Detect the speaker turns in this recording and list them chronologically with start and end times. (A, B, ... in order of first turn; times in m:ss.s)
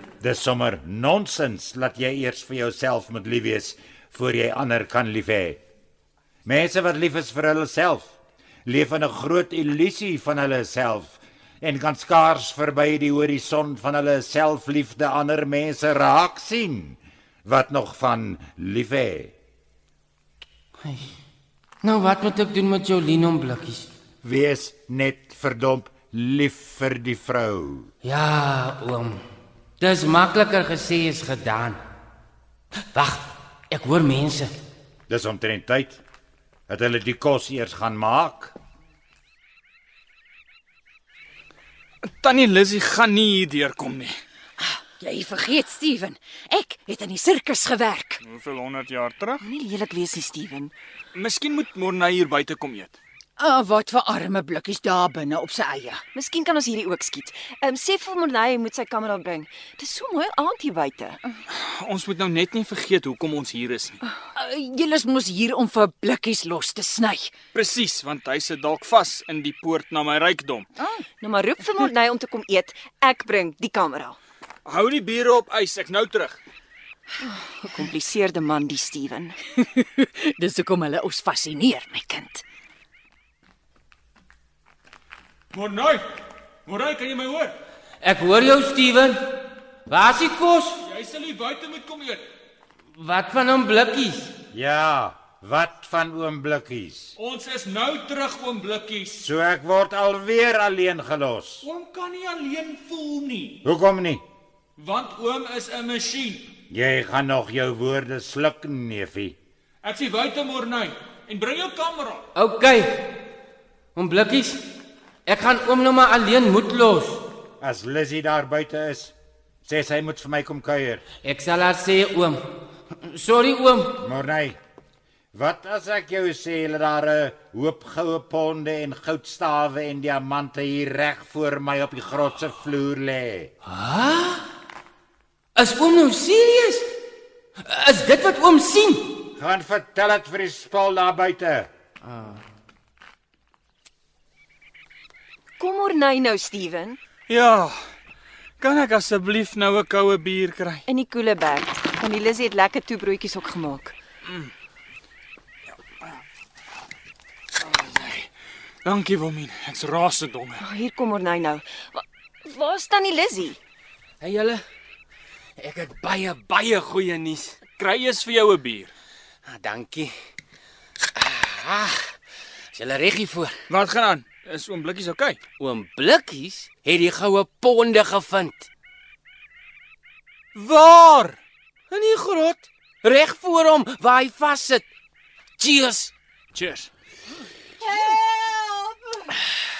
0:00.2-0:05.6 A
0:06.4-0:08.1 A
0:08.6-0:19.3 A
0:21.8-0:23.9 B
0:24.2-0:27.9 A
0:28.0-0:29.2 B
0:29.8-0:31.8 B
0:32.9-0:34.5 B
0:35.1-0:36.0 A
0:36.7-0:38.5 A
0:42.1-0:44.1 C
0:44.6-0:48.2 D
0:48.2-0:49.4 C
0:49.4-0:50.7 E
0:51.1-0:53.0 C
0:53.4-0:56.0 D
0:56.1-1:01.2 E
1:01.5-1:04.0 C
1:04.3-1:07.3 D
1:07.5-1:10.7 C
1:11.2-1:14.2 E
1:14.6-1:16.4 C
1:17.6-1:19.4 E
1:19.6-1:22.4 D
1:25.5-1:26.0 C
1:26.6-1:27.6 C
1:28.0-1:30.8 B
1:30.8-1:32.2 C
1:32.9-1:34.3 B
1:34.5-1:37.1 A
1:37.2-1:39.2 C
1:39.2-1:41.6 A
1:41.6-1:43.6 C
1:43.6-1:44.2 A
1:44.8-1:46.5 C
1:46.7-1:49.4 A
1:49.8-1:52.2 C
1:52.3-1:53.2 B
1:53.9-1:54.6 B
1:55.2-1:57.3 B
1:57.6-1:59.1 A
1:59.6-2:01.0 A
2:01.2-2:02.4 B
2:03.0-2:04.0 B
2:04.0-2:04.6 A
2:05.3-2:13.5 A
2:13.6-2:14.4 B
2:15.6-2:16.9 B
2:17.6-2:19.2 B
2:19.4-2:21.7 A
2:22.1-2:22.4 B
2:25.6-2:27.0 E
2:27.3-2:27.8 C
2:28.6-2:30.8 C
2:30.9-2:33.9 E
2:37.7-2:38.3 C
2:38.8-2:40.6 C
2:40.6-2:43.6 E
2:44.2-2:44.6 B
2:45.6-2:47.6 B
2:47.8-2:48.9 C
2:49.4-2:50.1 B
2:51.2-2:52.1 B
2:52.7-2:53.6 B
2:53.7-2:55.5 C
2:55.5-2:58.7 B
3:00.5-3:01.4 C
3:01.9-3:04.8 B
3:05.6-3:06.1 B
3:06.5-3:06.9 C
3:07.8-3:09.4 D